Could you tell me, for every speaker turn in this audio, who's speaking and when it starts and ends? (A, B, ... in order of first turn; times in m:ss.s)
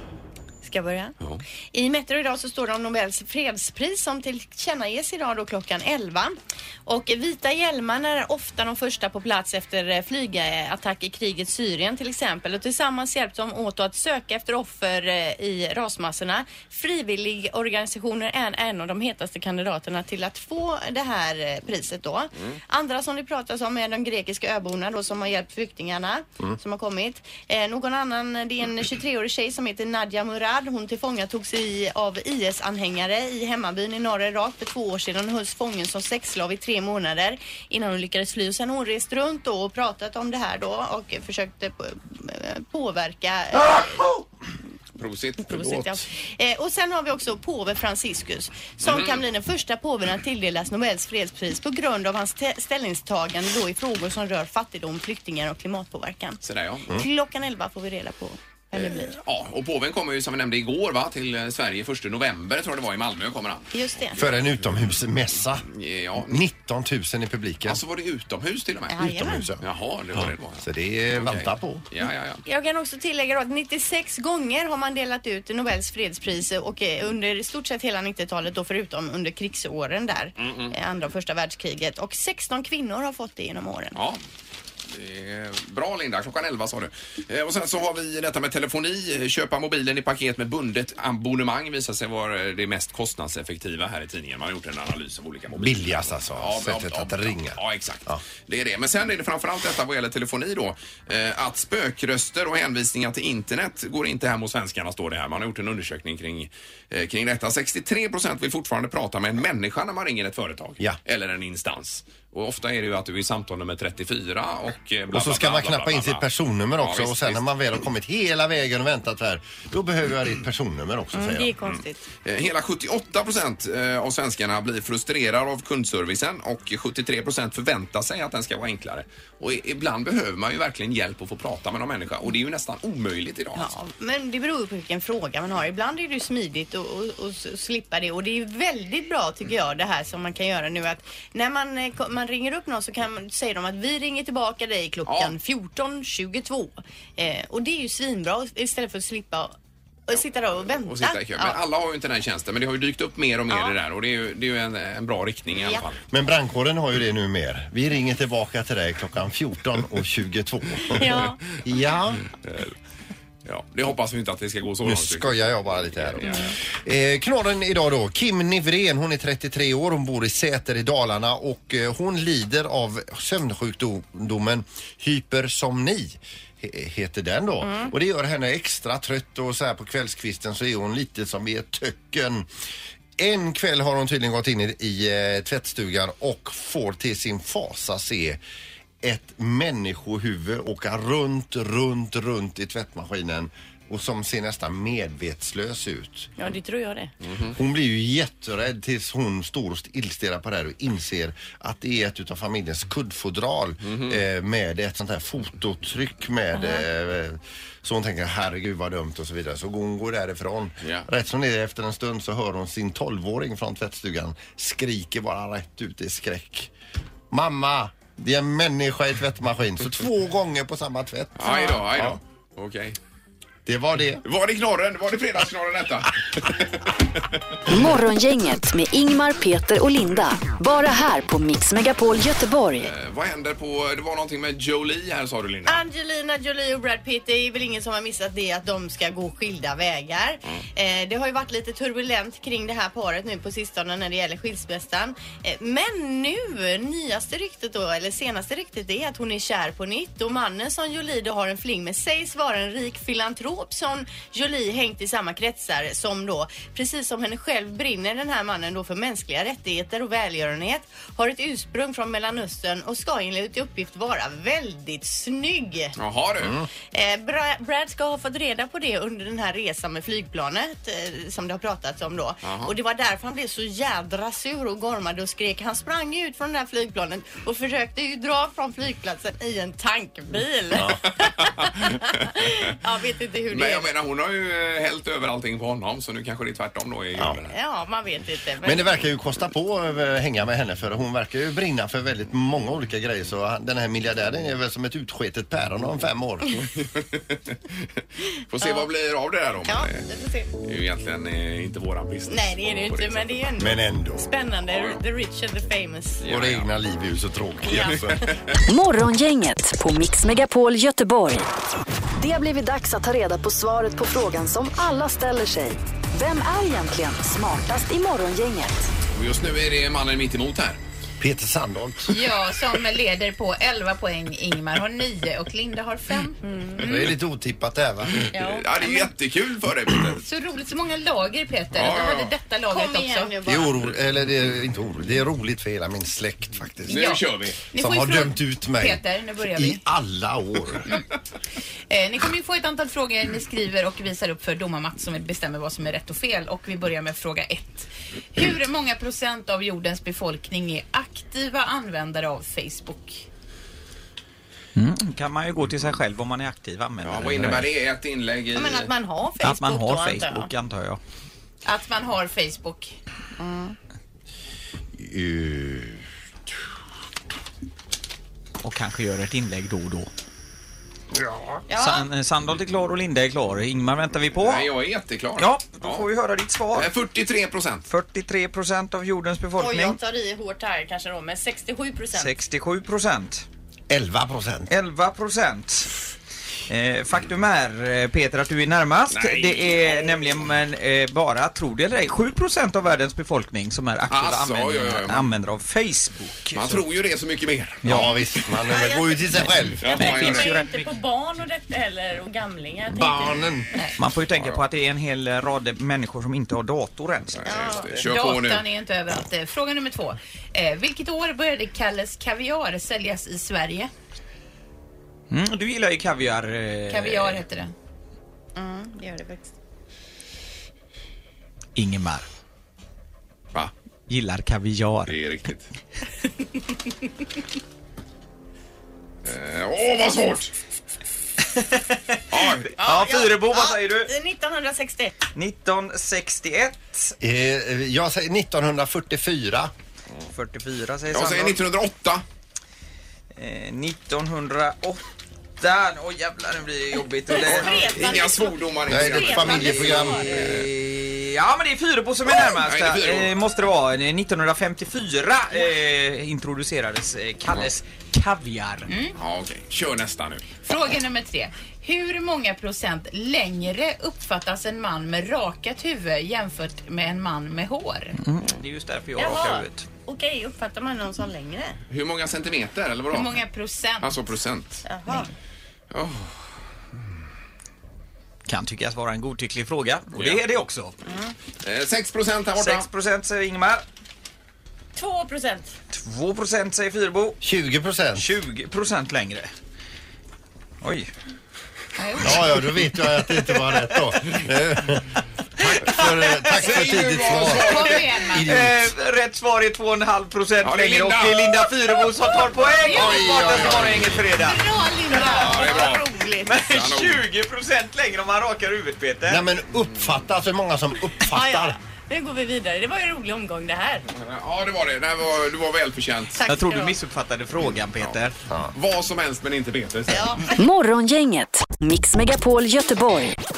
0:00.6-0:01.2 A
0:01.7-0:44.0 A
0:45.0-0:46.0 B
0:45.4-0:59.2 A
0:48.8-0:49.2 B
0:56.4-0:57.0 B
0:58.8-1:04.4 B
1:03.7-1:04.2 A
1:04.2-1:05.7 C
1:05.7-1:06.5 B
1:06.2-1:07.8 C
1:07.6-1:09.0 B
1:08.9-1:09.5 A
1:09.0-1:09.7 C
1:09.6-1:12.4 B
1:10.6-1:11.8 C
1:12.5-1:24.0 A
1:20.4-1:20.7 B
1:24.0-1:24.2 B
1:24.9-1:56.2 B
1:35.6-1:38.2 C
1:55.1-2:01.6 C
1:56.8-1:57.4 B
2:01.1-2:02.0 A
2:02.2-2:13.7 B
2:13.6-2:29.5 A
2:25.1-2:25.4 B
2:30.1-2:31.6 A
2:30.8-2:36.0 B
2:33.5-2:33.8 A
2:35.6-2:35.9 A
2:36.1-2:42.2 C
2:40.9-2:41.4 A
2:42.4-2:42.7 B
2:43.4-2:46.6 B
2:44.8-3:02.5 C
2:46.3-2:46.5 A
2:57.6-2:57.9 A
3:03.2-3:08.4 C
3:09.0-3:16.3 C
3:16.4-3:17.1 A
3:17.2-3:17.6 B
3:17.5-3:36.7 C
3:23.8-3:24.2 B
3:26.5-3:26.8 A
3:30.8-3:31.1 B
3:37.3-3:42.2 C
3:41.4-3:43.0 B
3:43.7-3:44.2 C
3:44.2-3:47.6 B
3:47.7-3:52.9 D
3:52.8-3:55.8 B
3:55.7-4:26.0 A
4:26.0-4:26.6 B
4:26.4-4:26.7 C
4:26.9-4:43.9 A
4:32.4-4:32.7 B
4:40.7-4:41.0 C
4:43.5-4:47.5 B
4:47.5-4:48.9 A
4:48.6-4:56.6 C
4:56.8-4:57.9 B
4:58.5-5:00.1 B
4:58.6-4:58.9 A
4:59.6-5:00.5 A
5:00.6-5:03.4 B
5:02.3-5:06.2 A
5:03.6-5:04.3 C
5:04.7-5:05.0 B
5:06.2-5:06.7 B
5:06.3-5:08.3 C
5:07.7-5:08.0 A
5:07.7-5:08.6 B
5:08.7-5:11.5 D
5:12.2-5:18.9 D
5:19.1-5:20.8 B
5:21.2-5:22.2 C
5:22.1-5:26.4 E
5:26.4-5:27.1 A
5:26.8-5:28.2 C
5:28.1-5:30.2 B
5:28.3-5:29.1 A
5:30.2-5:33.3 E
5:31.8-5:32.3 B
5:32.7-5:33.8 A
5:33.4-5:37.2 C
5:36.9-5:37.6 B
5:36.9-5:39.8 E
5:37.7-5:40.9 C
5:41.9-5:53.2 E
5:54.8-5:57.7 F
5:57.0-5:58.9 B
5:58.5-6:00.5 A
5:59.4-6:01.0 F
6:01.6-6:02.9 E
6:03.4-6:03.8 A
6:05.0-6:06.0 C
6:08.6-6:10.1 F
6:11.7-6:12.1 A
6:11.8-6:14.7 F
6:14.4-6:16.1 B
6:15.4-6:16.9 F
6:16.7-6:17.8 B
6:17.9-6:20.0 F
6:19.6-6:22.3 A
6:22.2-6:23.5 F
6:23.9-6:24.7 C
6:24.7-6:25.9 F
6:26.7-6:36.8 F
6:29.1-6:30.3 B
6:34.1-6:35.3 B
6:36.5-6:38.0 B
6:37.8-6:38.1 F
6:37.9-6:39.9 C
6:37.9-6:43.5 A
6:39.8-6:40.6 B
6:39.9-6:40.9 F
6:42.9-6:43.7 C
6:44.0-6:47.5 F
6:44.4-6:44.6 B
6:47.3-6:48.6 B
6:47.5-6:47.9 A
6:48.0-6:53.9 E
6:55.3-6:57.4 F
6:56.9-6:57.7 E
6:58.6-6:59.5 A
7:01.8-7:02.3 F
7:04.1-7:05.2 F
7:05.1-7:05.7 B
7:09.2-7:10.5 B
7:11.4-7:14.1 F
7:12.3-7:12.7 B
7:12.8-7:15.2 A
7:15.4-7:17.2 F
7:17.2-7:19.7 C
7:20.3-7:21.6 F
7:21.1-7:22.2 B
7:23.4-7:25.0 F
7:25.6-7:28.2 F
7:27.3-7:30.5 A
7:27.4-7:30.7 B
7:28.9-7:30.4 C
7:30.3-7:38.9 F
7:32.3-7:33.3 B
7:38.9-7:39.1 E
7:39.2-7:40.4 B
7:40.6-7:48.2 E
7:48.2-7:49.9 F
7:49.2-7:51.8 A
7:51.9-7:53.4 B
7:53.1-7:54.2 E
7:54.0-7:54.8 B
7:54.8-7:55.3 A
7:55.9-7:56.4 B
7:58.5-8:00.9 F
8:00.1-8:00.4 B
8:01.1-8:01.4 A
8:01.6-8:02.9 B
8:02.6-8:03.8 F
8:05.0-8:05.8 A
8:05.9-8:07.4 F
8:07.4-8:08.3 C
8:08.2-8:09.5 F
8:10.8-8:11.1 F
8:12.0-8:12.3 E
8:12.2-8:18.9 C
8:16.5-8:18.0 B
8:16.9-8:18.4 E
8:18.4-8:24.6 F
8:20.6-8:21.8 B
8:22.9-8:24.3 C
8:22.9-8:23.2 E
8:24.4-8:26.7 A
8:25.2-8:26.1 B
8:25.4-8:25.8 F
8:26.4-8:29.4 F
8:26.7-8:27.2 B
8:29.3-8:31.8 C
8:31.3-8:34.1 A
8:34.1-8:36.4 B
8:36.4-8:37.0 A
8:36.5-8:38.4 F
8:38.7-8:40.4 B
8:40.1-8:40.6 A
8:40.6-8:43.4 D